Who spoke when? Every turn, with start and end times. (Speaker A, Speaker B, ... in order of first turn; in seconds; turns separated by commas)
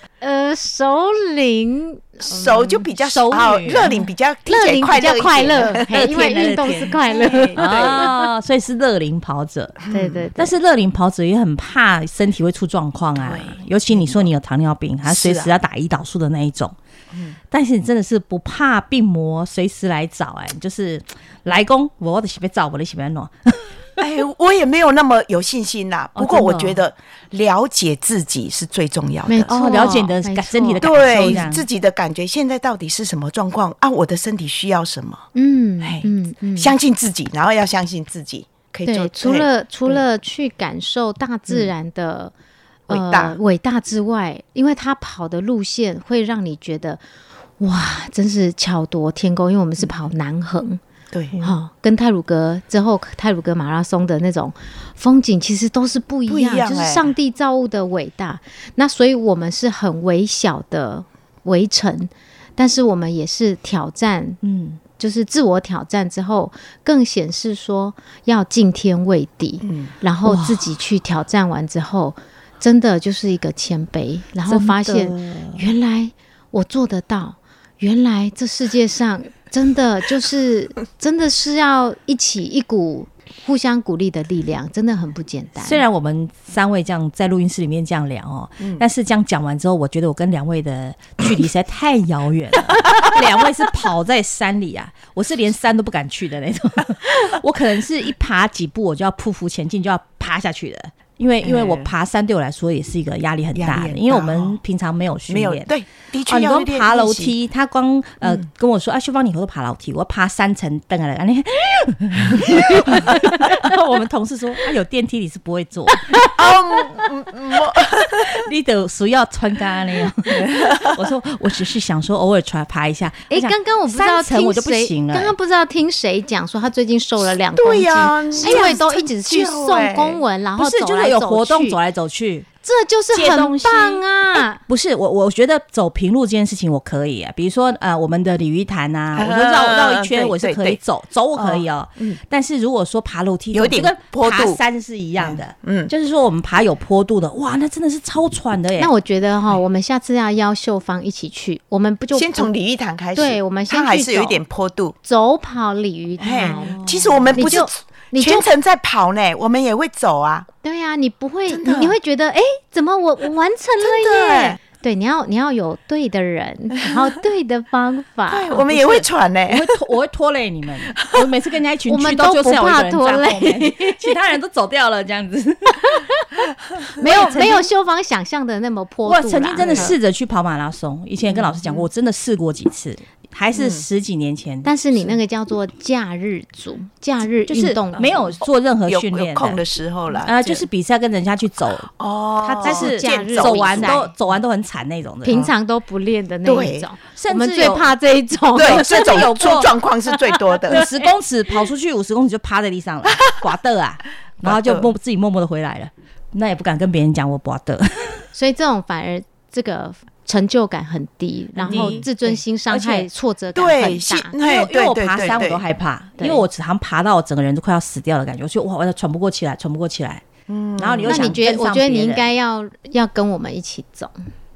Speaker A: 0.2-2.8, Speaker B: 2.2-8.1, Speaker C: 3.0-3.9, Speaker A: 4.5-8.1, Speaker C: 5.9-7.0, Speaker C: 7.5-9.8, Speaker B: 9.8-10.2, Speaker A: 9.9-10.5, Speaker C: 10.4-16.7, Speaker B: 13.2-14.3, Speaker B: 15.1-15.5, Speaker B: 17.1-17.4, Speaker C: 17.5-23.8, Speaker B: 24.0-29.8, Speaker C: 26.1-26.8, Speaker A: 29.3-31.4, Speaker C: 29.5-31.6, Speaker B: 30.8-35.3, Speaker A: 35.3-36.7, Speaker B: 35.8-40.0, Speaker A: 38.9-42.3, Speaker A: 42.9-47.0, Speaker B: 42.9-43.4, Speaker A: 47.6-50.8, Speaker B: 51.1-51.4, Speaker A: 51.4-64.4, Speaker B: 56.3-57.1, Speaker C: 64.4-64.8, Speaker A: 65.0-85.8, Speaker B: 69.6-69.9, Speaker C: 70.2-70.7, Speaker C: 74.5-75.7, Speaker C: 85.6-105.7, Speaker B: 101.4-101.9, Speaker B: 103.5-104.6, Speaker B: 105.3-107.3, Speaker C: 106.3-116.2, Speaker B: 112.7-113.2, Speaker B: 116.3-118.4, Speaker C: 118.2-125.3, Speaker B: 120.3-121.0, Speaker A: 123.3-131.8, Speaker B: 127.5-130.2, Speaker C: 128.4-128.8, Speaker C: 130.6-132.5, Speaker A: 132.6-134.6, Speaker C: 133.1-148.9, Speaker B: 139.1-140.8, Speaker B: 141.3-142.2, Speaker B: 143.5-144.6, Speaker B: 145.2-145.9, Speaker A: 148.8-152.5, Speaker B: 152.1-154.9, Speaker A: 153.1-154.4, Speaker A: 155.0-158.5, Speaker B: 156.2-160.5, Speaker C: 156.5-157.3, Speaker A: 160.6-168.9, Speaker B: 161.5-161.9, Speaker B: 163.8-164.6, Speaker B: 168.3-169.7, Speaker C: 169.5-176.1, Speaker A: 171.9-174.1, Speaker A: 177.0-179.9, Speaker C: 177.0-177.7, Speaker C: 179.1-184.7, Speaker B: 179.6-179.9, Speaker B: 181.3-181.9, Speaker B: 183.5-183.8, Speaker A: 184.6-188.3, Speaker C: 187.5-189.6, Speaker B: 188.8-190.6, Speaker C: 190.2-191.9, Speaker B: 192.0-194.0, Speaker A: 192.4-194.1, Speaker C: 192.6-195.5, Speaker A: 195.2-199.6, Speaker B: 196.4-196.9, Speaker C: 197.1-197.9, Speaker B: 198.5-200.9, Speaker C: 198.6-199.7, Speaker C: 200.7-208.2, Speaker B: 204.4-204.9, Speaker A: 208.3-214.3, Speaker B: 211.6-212.3, Speaker C: 211.7-212.0, Speaker C: 212.7-213.1, Speaker B: 213.5-215.6, Speaker C: 214.4-220.2, Speaker A: 216.2-216.4, Speaker B: 220.5-221.4, Speaker C: 220.8-222.3, Speaker A: 221.1-224.1